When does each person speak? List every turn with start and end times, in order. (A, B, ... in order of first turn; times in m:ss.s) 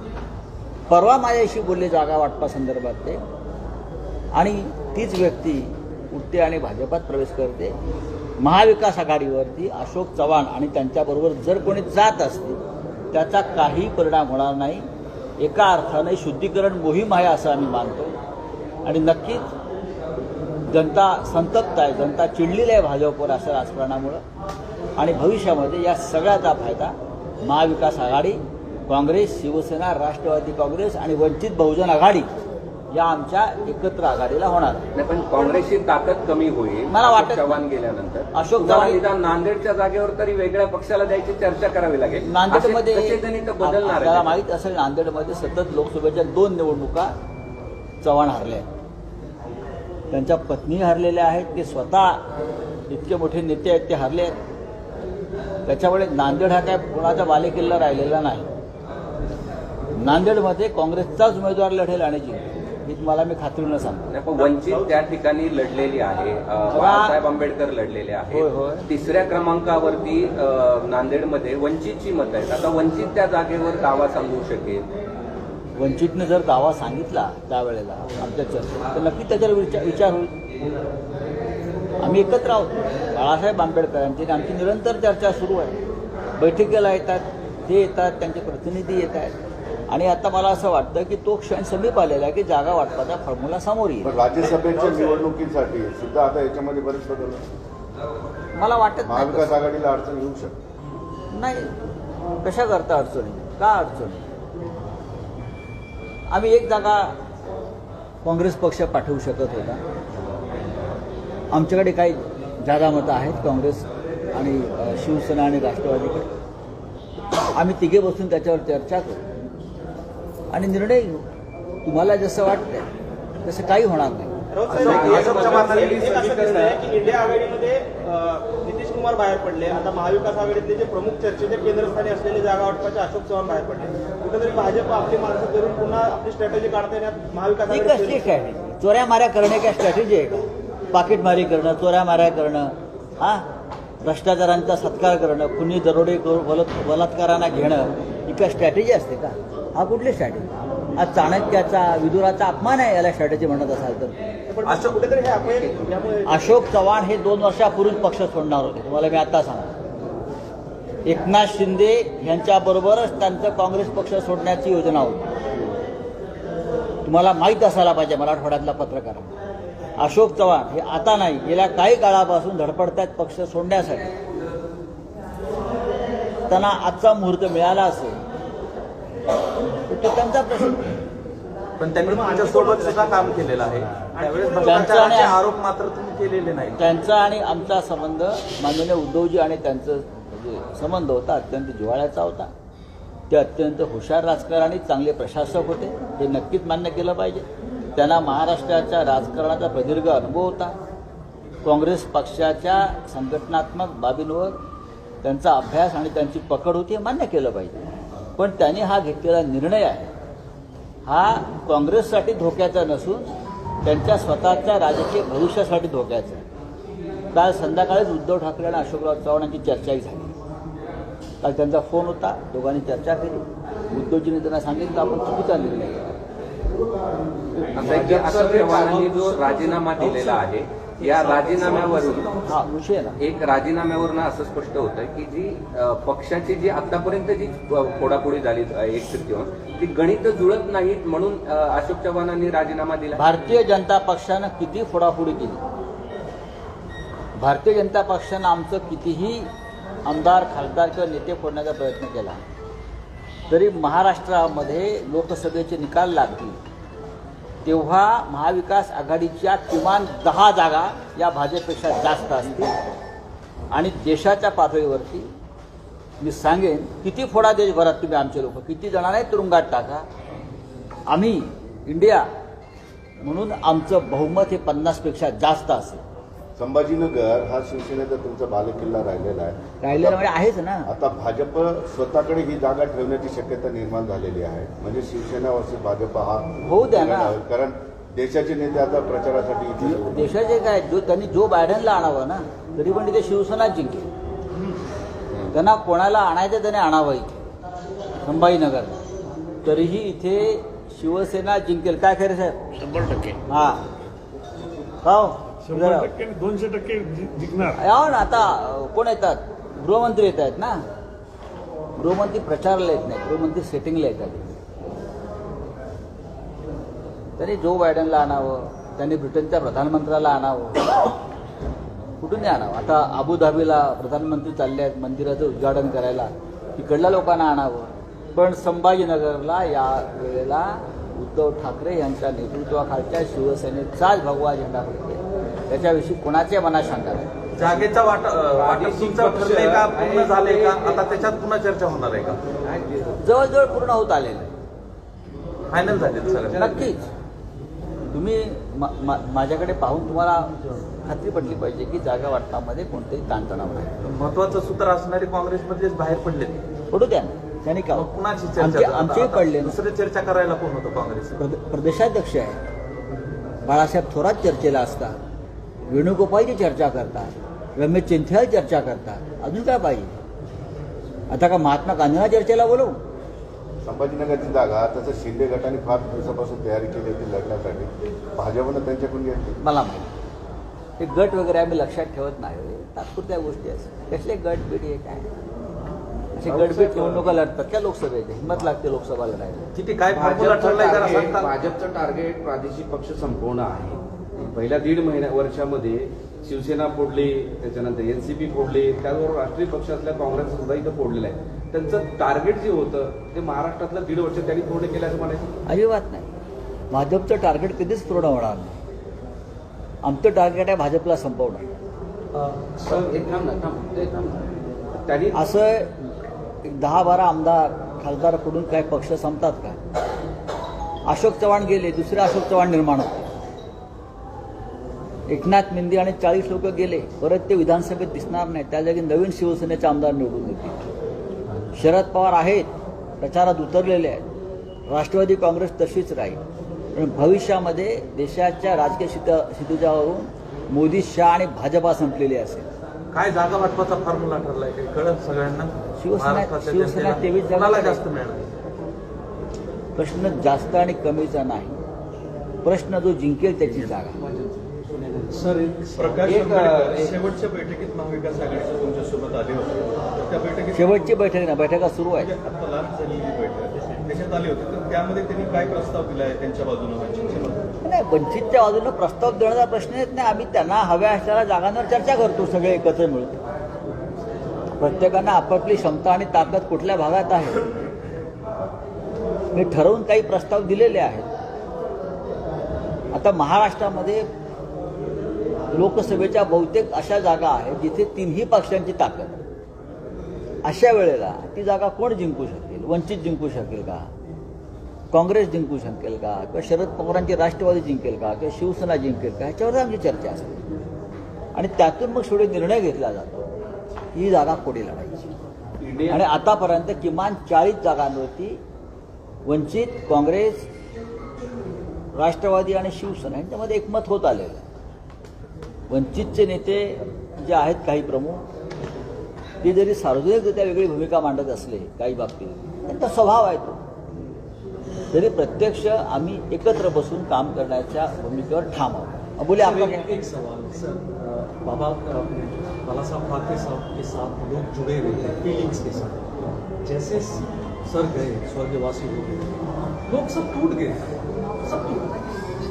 0:00.9-0:03.2 A
0:04.3-0:07.8 A
0:08.4-0:12.6 A
0:13.1-0:14.9 A
0:15.4-0:18.1 A
0:18.8-0:19.5 A
0:20.7-0:24.2 A
0:25.0-0:32.3 A
0:32.9-0:34.8 A
0:35.0-0:44.4 B
0:36.9-0:37.6 A
0:38.3-0:39.0 A
0:42.2-0:47.1 A
0:48.0-0:48.7 A
0:50.1-0:52.2 A
0:52.9-0:54.4 A
0:55.7-0:58.5 A
1:00.0-1:04.1 A
1:04.1-1:14.9 B
1:06.7-1:07.2 A
1:08.3-1:08.9 A
1:15.8-1:20.4 A
1:22.0-1:25.8 A
1:26.4-1:29.4 A
1:29.9-1:34.2 A
1:34.0-1:37.4 C
1:38.6-1:39.5 A
1:39.0-1:40.6 C
1:41.3-1:41.7 A
1:42.4-1:44.3 A
1:46.3-1:47.2 A
1:48.2-1:49.8 A
1:51.5-1:56.3 A
1:57.6-1:59.2 A
2:00.5-2:01.2 A
2:01.8-2:02.9 A
2:03.4-2:04.3 A
2:04.5-2:18.5 D
2:04.8-2:06.8 E
2:17.7-2:20.4 A
2:20.9-2:23.5 A
2:24.0-2:34.2 A
2:34.5-2:36.6 D
2:34.6-2:35.1 E
2:36.3-2:39.7 A
2:41.1-2:45.3 A
2:47.0-2:49.3 A
2:50.0-2:54.1 A
2:56.5-2:58.2 A
2:59.9-3:00.8 A
3:01.8-3:06.8 E
3:02.0-3:03.4 D
3:04.1-3:05.3 D
3:04.6-3:05.4 A
3:06.8-3:12.5 A
3:13.3-3:17.4 A
3:18.0-3:20.8 A
3:21.6-3:24.6 A
3:25.2-3:27.8 A
3:28.4-3:30.1 A
3:31.1-3:33.3 A
3:33.8-3:36.4 A
3:37.3-3:40.4 A
3:41.4-3:46.1 A
3:47.7-3:52.4 B
3:47.8-3:50.4 F
3:51.0-3:52.6 F
3:52.4-3:53.2 A
3:53.2-4:03.6 B
4:03.2-4:05.6 A
4:07.4-4:09.5 A
4:10.1-4:12.4 A
4:13.5-4:16.6 A
4:17.6-4:22.7 A
4:23.7-4:25.3 A
4:26.2-4:30.1 A
4:31.1-4:32.3 A
4:33.2-4:36.0 A
4:36.6-4:40.3 C
4:39.8-4:40.9 A
4:40.9-4:50.3 C
4:46.6-4:47.4 A
4:49.8-4:54.1 A
4:55.5-4:57.4 A
4:58.2-4:59.0 A
4:59.6-5:02.6 A
5:03.5-5:03.8 A
5:05.0-5:06.1 A
5:05.7-5:07.8 G
5:07.8-5:10.8 A
5:12.0-5:14.5 A
5:17.4-5:20.9 A
5:22.2-5:37.3 A
5:37.6-5:42.4 E
5:38.6-5:41.0 H
5:42.6-5:43.2 H
5:43.2-5:44.5 A
5:45.7-5:46.8 E
5:46.5-5:47.1 A
5:48.0-5:54.0 A
5:54.0-5:56.6 E
5:56.9-5:59.8 A
5:57.9-6:01.4 E
6:01.4-6:02.6 A
6:03.7-6:05.2 A
6:05.9-6:10.2 A
6:11.3-6:13.0 A
6:13.8-6:19.6 C
6:19.6-6:20.1 A
6:21.0-6:25.3 A
6:26.4-6:29.7 A
6:26.5-6:27.1 H
6:29.8-6:31.5 E
6:30.1-6:45.5 H
6:35.0-6:35.5 B
6:40.6-6:41.2 B
6:41.7-6:43.1 B
6:44.2-6:44.5 B
6:45.7-6:46.3 A
6:46.9-6:48.8 A
6:50.0-6:51.7 A
6:52.3-6:53.1 F
6:52.8-6:55.4 H
6:55.4-6:56.0 A
6:56.6-6:59.8 A
7:01.1-7:03.3 A
7:05.3-7:10.8 A
7:11.8-7:12.7 A
7:13.2-7:14.2 A
7:14.9-7:16.4 A
7:17.0-7:22.7 A
7:23.1-7:28.5 E
7:26.0-7:28.0 A
7:30.0-7:31.8 A
7:32.6-7:34.2 A
7:33.6-7:35.4 H
7:35.3-7:36.4 F
7:36.0-7:37.2 H
7:36.0-7:41.0 I
7:40.7-7:42.3 A
7:42.2-7:42.6 H
7:42.6-7:45.9 I
7:45.9-7:46.4 H
7:46.5-7:47.6 I
7:47.8-7:53.4 A
7:54.8-7:57.6 A
7:59.5-8:01.3 A
8:03.1-8:04.2 A
8:05.7-8:09.4 A
8:10.6-8:14.1 A
8:15.1-8:20.6 A
8:21.6-8:23.5 A
8:24.1-8:25.3 A
8:25.8-8:26.2 H
8:26.1-8:28.6 A
8:29.5-8:30.7 A
8:32.2-8:34.6 A
8:35.9-8:38.4 A
8:39.6-8:43.8 A
8:45.1-8:50.1 A
8:49.6-8:56.2 F
8:56.8-9:01.0 F
9:01.6-9:02.5 F